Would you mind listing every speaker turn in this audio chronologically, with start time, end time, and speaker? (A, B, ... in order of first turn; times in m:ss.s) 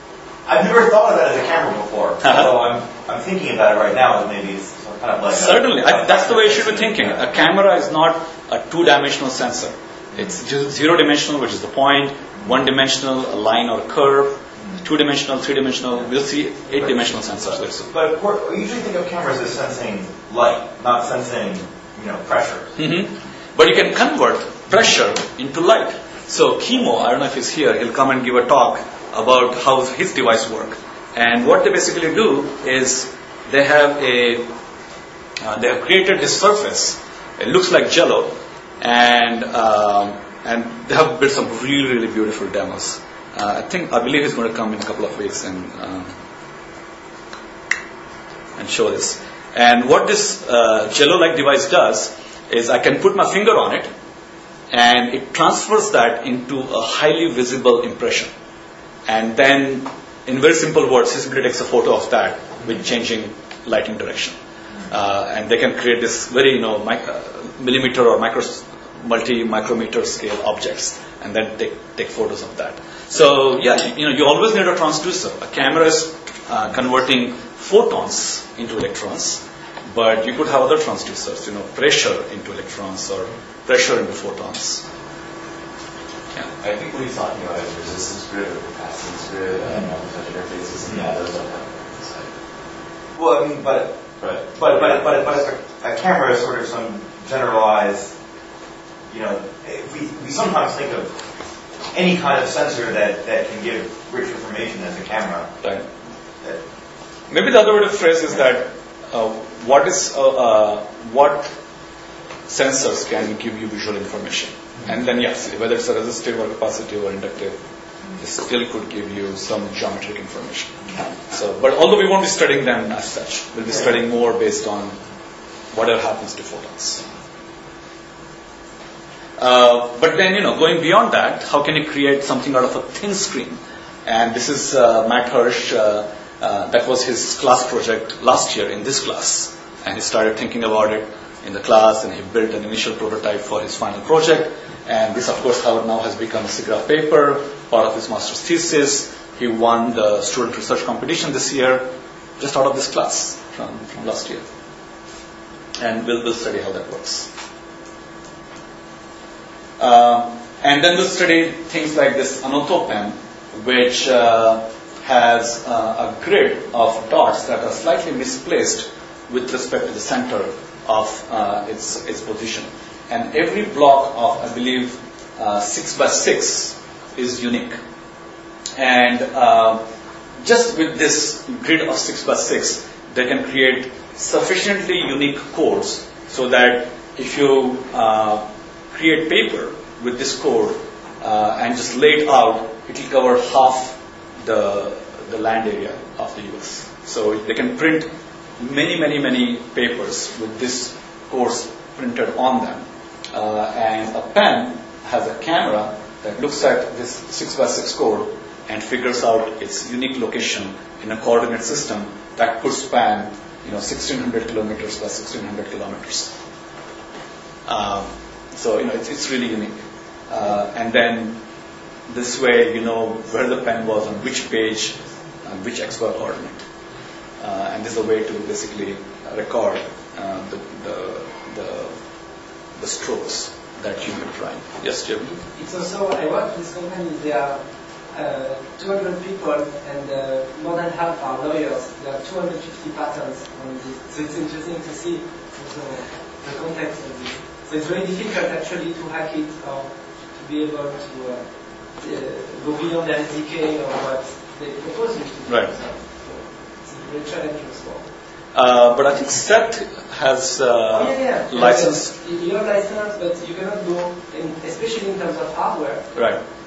0:00.4-0:07.2 A
0:02.2-0:02.5 B
0:05.3-0:17.9 B
0:17.9-0:22.7 A
0:22.8-0:34.5 B
0:35.4-0:46.1 B
0:48.6-0:53.9 B
0:54.7-0:58.3 B
0:59.0-1:04.4 B
1:04.9-1:24.8 B
1:26.3-1:32.3 C
1:33.1-1:38.1 A
1:34.2-1:35.3 C
1:39.1-1:41.1 A
1:41.9-1:45.5 A
1:45.6-1:45.9 B
1:47.3-1:51.5 B
1:52.5-1:57.6 B
1:58.2-2:05.0 B
2:05.7-2:07.0 B
2:09.4-2:34.4 B
2:35.8-2:37.3 B
2:39.8-2:57.8 B
2:58.8-2:59.8 B
3:00.4-3:36.3 B
3:37.6-3:41.4 B
3:42.1-3:46.6 B
3:47.4-3:51.9 B
3:52.8-3:55.3 B
3:55.3-4:11.4 D
4:12.0-4:18.1 D
4:15.5-4:15.7 B
4:18.5-4:22.1 B
4:20.9-4:26.2 D
4:26.1-4:26.4 B